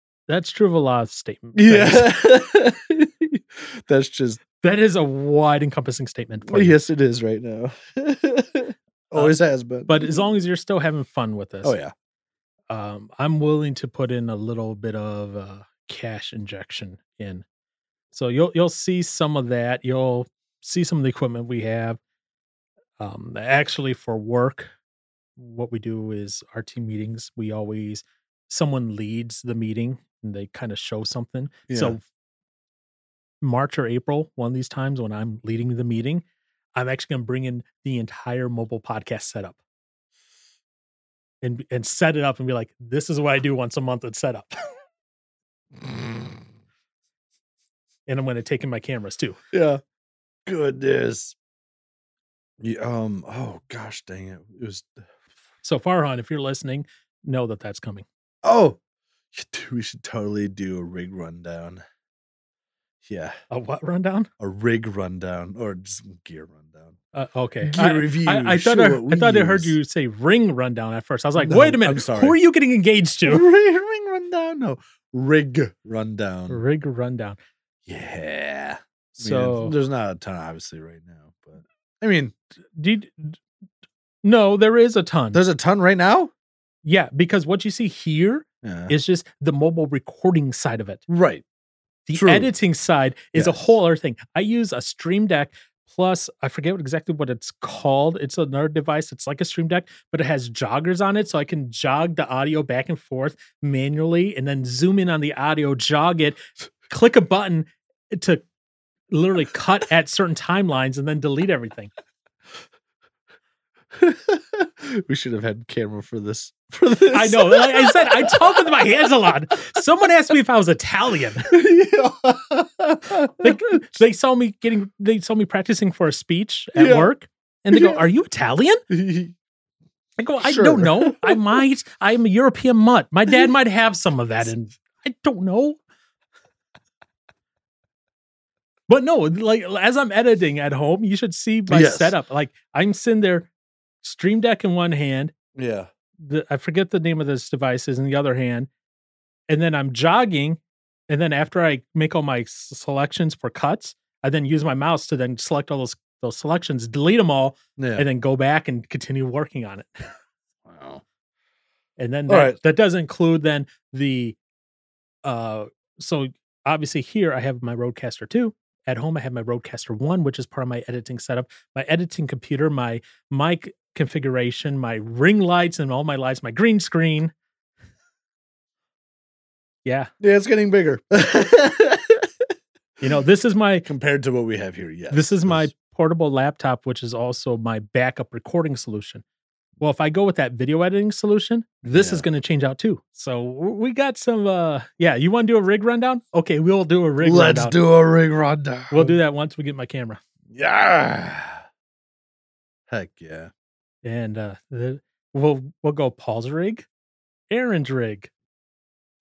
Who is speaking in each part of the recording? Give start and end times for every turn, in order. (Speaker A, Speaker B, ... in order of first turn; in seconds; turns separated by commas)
Speaker A: 0.3-2.1, Speaker B: 1.5-4.4, Speaker A: 4.6-6.8, Speaker B: 6.4-10.2, Speaker A: 9.2-11.8, Speaker B: 11.6-11.9, Speaker A: 12.7-17.4, Speaker A: 18.1-22.0, Speaker A: 23.0-24.7, Speaker A: 25.4-32.0, Speaker B: 31.7-32.0, Speaker A: 33.4-39.6, Speaker A: 41.4-44.5, Speaker B: 45.8-46.4, Speaker A: 48.1-49.4, Speaker B: 49.5-49.8, Speaker B: 50.5-51.4, Speaker B: 52.6-55.0, Speaker A: 55.6-58.0, Speaker B: 58.4-58.8, Speaker B: 59.3-61.8, Speaker B: 63.0-63.3, Speaker A: 63.5-64.3, Speaker B: 64.4-67.0, Speaker A: 67.1-73.4, Speaker B: 67.6-69.8, Speaker B: 71.4-72.3, Speaker B: 73.3-76.6, Speaker A: 76.5-77.4, Speaker B: 77.9-82.3, Speaker A: 79.2-79.7, Speaker A: 82.8-83.4, Speaker A: 84.2-85.4, Speaker B: 85.3-86.3, Speaker A: 86.8-91.0, Speaker B: 88.6-88.9, Speaker B: 91.1-91.4, Speaker A: 92.1-108.4, Speaker B: 92.1-92.5, Speaker B: 93.3-93.7, Speaker A: 109.1-111.9, Speaker B: 113.9-119.1, Speaker A: 117.1-121.5, Speaker B: 121.5-123.7, Speaker A: 123.4-128.8, Speaker B: 126.8-127.1, Speaker B: 127.7-128.1, Speaker B: 128.9-129.3, Speaker A: 130.2-135.8, Speaker B: 130.4-131.6, Speaker A: 138.9-143.5, Speaker B: 141.7-142.1, Speaker A: 144.0-145.3, Speaker B: 145.5-145.9, Speaker A: 146.2-148.7, Speaker A: 149.5-160.1, Speaker B: 157.8-158.1, Speaker B: 160.6-161.0, Speaker A: 162.0-164.4, Speaker B: 162.3-162.6, Speaker A: 165.2-177.3, Speaker A: 179.8-180.1, Speaker B: 180.2-182.3, Speaker A: 183.0-183.8, Speaker B: 183.8-185.7, Speaker A: 185.1-189.2, Speaker A: 189.8-197.8, Speaker B: 191.9-192.2, Speaker B: 197.2-199.2, Speaker A: 198.9-200.2, Speaker B: 200.5-201.6, Speaker B: 202.9-203.5, Speaker A: 204.0-206.9, Speaker A: 207.5-208.3